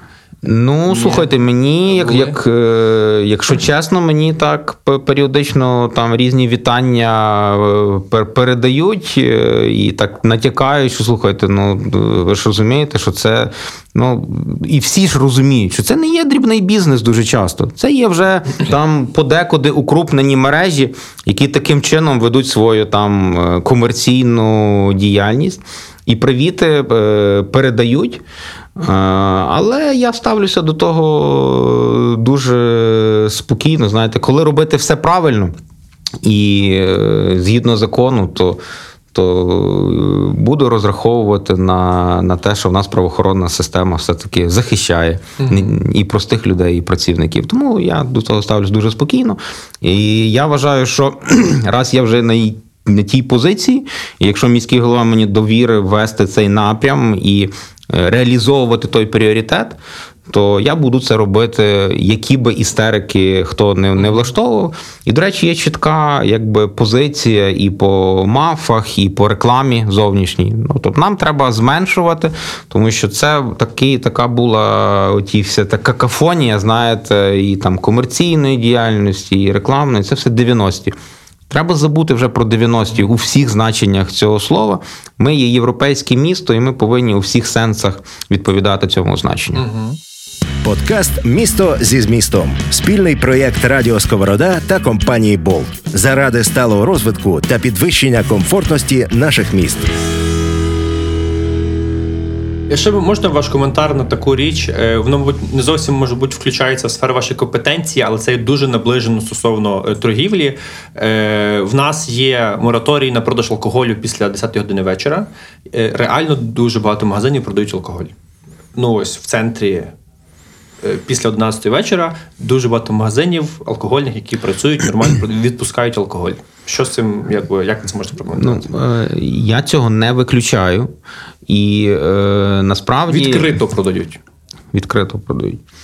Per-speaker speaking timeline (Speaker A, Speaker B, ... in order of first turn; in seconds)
Speaker A: 0.4-28.2, 28.8-35.5, 36.2-38.6, 39.1-59.8, 60.3-80.9, 81.5-89.6, 128.4-130.9, 131.5-133.5, 134.7-135.6
Speaker B: 0.9-1.3, 1.9-2.3, 45.4-45.7, 64.0-64.2, 89.5-90.0, 102.7-118.1, 118.7-119.9, 120.8-128.7, 133.1-134.2
Speaker C: 90.6-99.8